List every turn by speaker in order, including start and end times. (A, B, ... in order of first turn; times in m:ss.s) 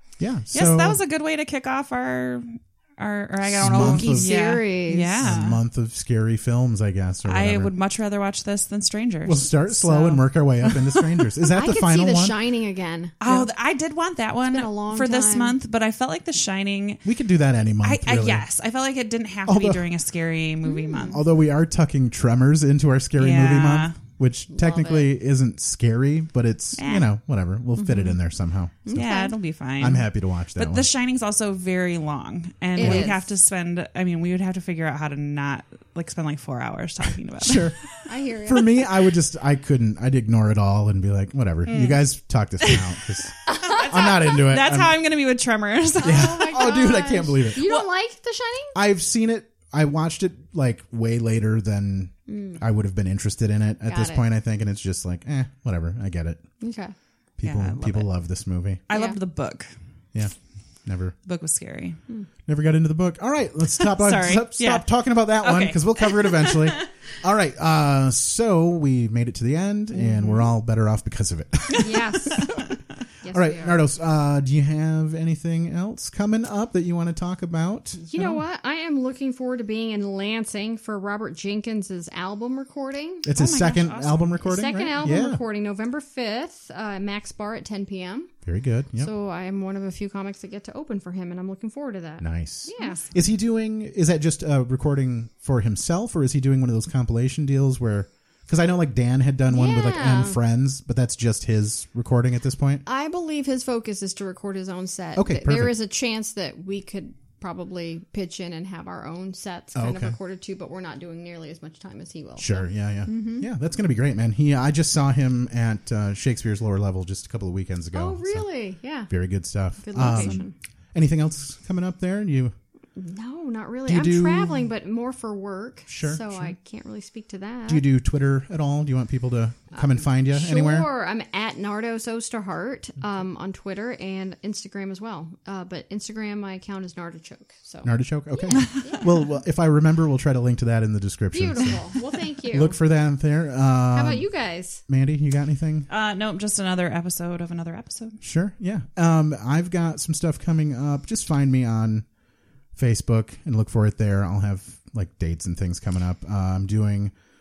0:00.2-0:01.0 A
0:00.5-0:05.6 B
0:03.4-0:04.3 A
0:03.6-0:05.3 C
0:05.2-0:07.7 A
0:07.2-0:11.2 B
0:09.2-0:12.3 A
0:11.5-0:13.2 C
0:13.2-0:17.0 B
0:14.5-0:15.6 C
0:17.0-0:18.4 A
0:17.8-0:21.2 B
0:19.4-0:19.8 A
0:20.6-0:21.1 C
0:21.1-0:29.0 A
0:23.2-0:24.0 B
0:24.5-0:25.1 C
0:26.8-0:27.1 B
0:27.8-0:28.2 C
0:28.8-0:29.3 C
0:28.9-0:37.7 B
0:29.8-0:30.9 A
0:32.8-0:33.2 C
0:32.8-0:33.1 A
0:37.4-0:37.8 A
0:38.0-0:38.9 C
0:38.4-0:45.0 A
0:41.7-0:42.0 B
0:43.5-0:43.8 C
0:43.5-0:46.4 B
0:46.0-0:48.8 C
0:46.0-0:47.6 A
0:48.7-0:56.4 A
0:52.3-0:52.6 C
0:53.8-0:54.2 C
0:56.6-0:56.9 C
0:57.4-0:58.8 A
0:57.4-0:58.1 B
0:58.9-0:59.7 B
0:58.9-0:59.2 C
1:00.1-1:01.2 A
1:01.2-1:02.0 B
1:02.5-1:12.5 A
1:03.8-1:06.8 B
1:10.0-1:10.3 C
1:11.8-1:12.5 C
1:13.2-1:13.8 C
1:13.3-1:18.4 A
1:18.0-1:23.3 C
1:23.2-1:25.4 A
1:23.3-1:24.7 B
1:24.4-1:28.3 C
1:28.4-1:29.1 A
1:29.0-1:33.0 C
1:32.2-1:42.8 A
1:32.8-1:33.0 B
1:39.5-1:40.4 C
1:42.8-1:53.5 C
1:45.1-1:45.8 A
1:49.7-1:50.2 A
1:52.4-1:58.5 A
1:57.9-1:59.1 C
1:59.1-2:02.5 A
1:59.8-2:00.5 C
2:00.0-2:00.5 B
2:03.0-2:07.8 C
2:03.8-2:04.7 A
2:05.9-2:06.5 A
2:07.7-2:10.9 A
2:09.7-2:19.2 C
2:17.8-2:21.8 A
2:18.7-2:19.0 B
2:21.3-2:22.8 C
2:22.5-2:24.3 A
2:23.9-2:24.8 C
2:24.9-2:25.9 A
2:25.9-2:28.2 B
2:28.2-2:32.0 A
2:32.8-2:37.1 A